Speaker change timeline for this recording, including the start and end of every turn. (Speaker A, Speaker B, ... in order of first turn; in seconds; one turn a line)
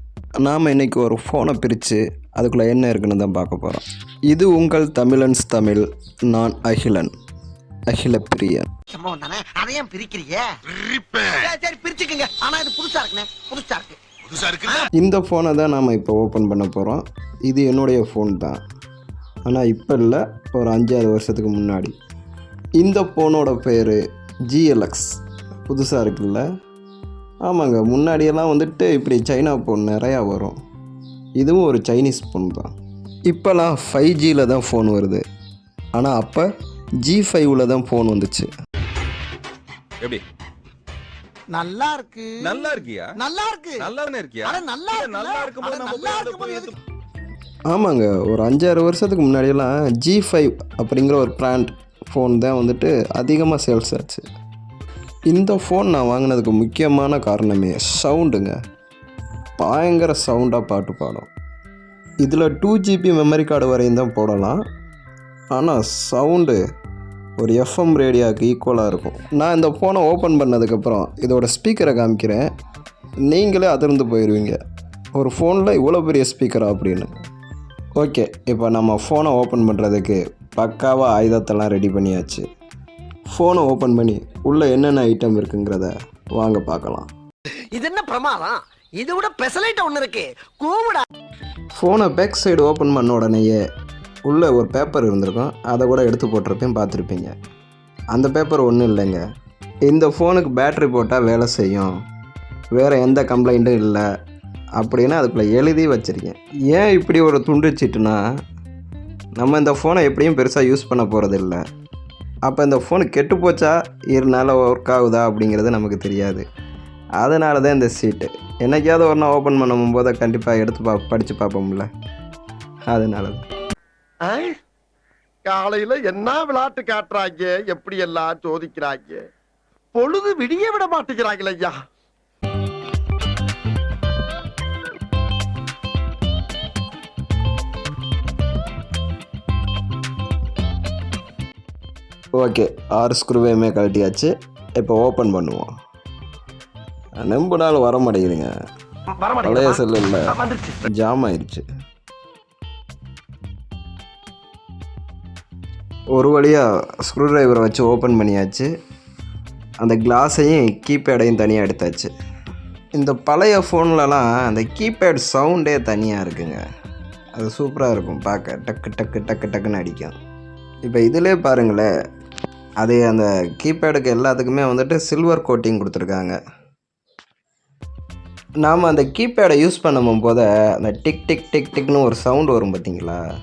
Speaker A: 0.4-7.1
Speaker A: 7.9-8.7
Speaker B: 8.9-10.5
Speaker B: 11.1-14.8
Speaker A: 15.0-18.6
Speaker A: 19.4-21.9
Speaker A: 22.8-26.4
Speaker A: 27.4-30.6
Speaker A: 31.4-32.7
Speaker A: 33.3-35.2
Speaker A: 36.0-36.5
Speaker A: 37.0-38.5
Speaker B: 41.5-43.9
Speaker C: 42.4-43.1
Speaker C: 43.8-46.7
Speaker B: 44.4-46.7
Speaker A: 47.7-54.2
Speaker A: 55.3-58.6
Speaker A: 59.6-61.3
Speaker A: 62.2-64.6
Speaker A: 65.5-66.6
Speaker A: 67.4-72.5
Speaker A: 73.3-74.6
Speaker A: 75.1-77.1
Speaker A: 78.0-82.4
Speaker A: 83.3-87.1
Speaker B: 87.7-91.0
Speaker D: 87.8-88.4
Speaker D: 89.5-90.8
Speaker A: 91.7-93.6
Speaker A: 94.2-97.3
Speaker A: 98.1-99.2
Speaker A: 99.8-101.9
Speaker A: 102.7-104.1
Speaker A: 104.8-108.2
Speaker A: 109.4-111.6
Speaker A: 112.5-116.4
Speaker A: 117.2-121.9
Speaker A: 122.9-123.4
Speaker D: 124.2-124.5
Speaker D: 125.4-129.2
Speaker D: 129.9-131.8
Speaker A: 142.4-145.7
Speaker A: 147.2-148.5
Speaker B: 149.2-150.4
Speaker A: 149.4-151.6
Speaker A: 156.2-158.7
Speaker A: 159.8-162.1
Speaker A: 162.9-166.6
Speaker A: 167.3-170.2
Speaker A: 170.8-171.9
Speaker A: 172.8-176.4
Speaker A: 178.6-183.2